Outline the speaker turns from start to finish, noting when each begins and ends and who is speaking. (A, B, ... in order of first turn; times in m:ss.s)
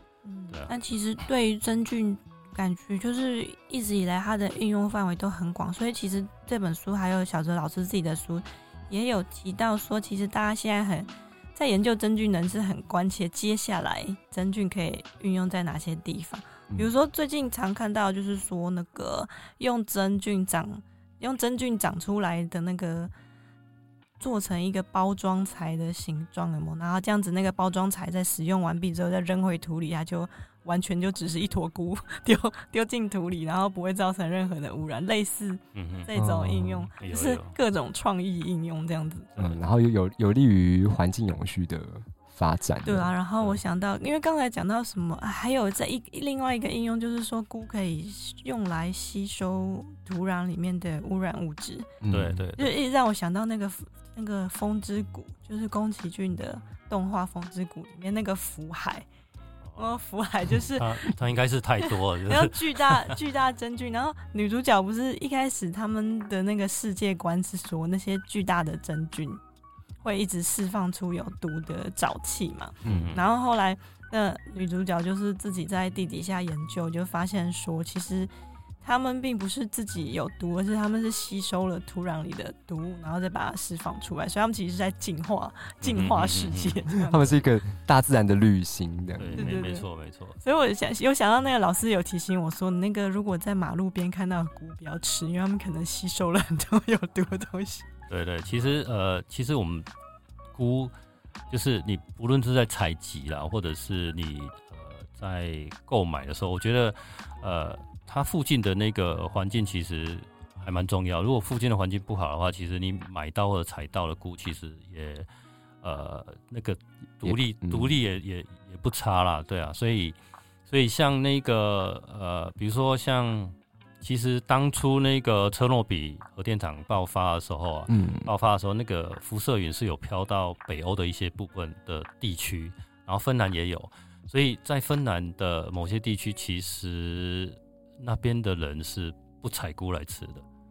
0:00.2-0:23.1 A
0:24.2-0:39.3 A
0:35.7-0:36.1 B
0:36.1-0:36.9 C
0:37.0-0:37.6 B
0:39.4-0:43.1 C
0:42.8-0:51.9 A
0:52.0-0:52.4 C
0:52.1-0:52.7 B
0:52.6-0:59.1 A
0:59.6-0:59.9 B
0:59.8-1:01.0 A
1:00.7-1:03.2 B
1:02.2-1:09.4 A
1:10.0-1:18.3 A
1:12.8-1:13.1 C
1:12.8-1:13.2 B
1:18.8-1:27.4 A
1:25.8-1:26.8 B
1:27.0-1:29.6 C
1:29.2-1:30.4 B
1:29.4-1:29.8 A
1:30.4-1:37.9 A
1:38.1-1:39.9 B
1:40.5-1:40.9 B
1:41.5-1:55.3 B
1:55.8-2:00.2 B
1:57.2-1:57.9 C
2:00.7-2:20.4 B
2:07.9-2:08.3 C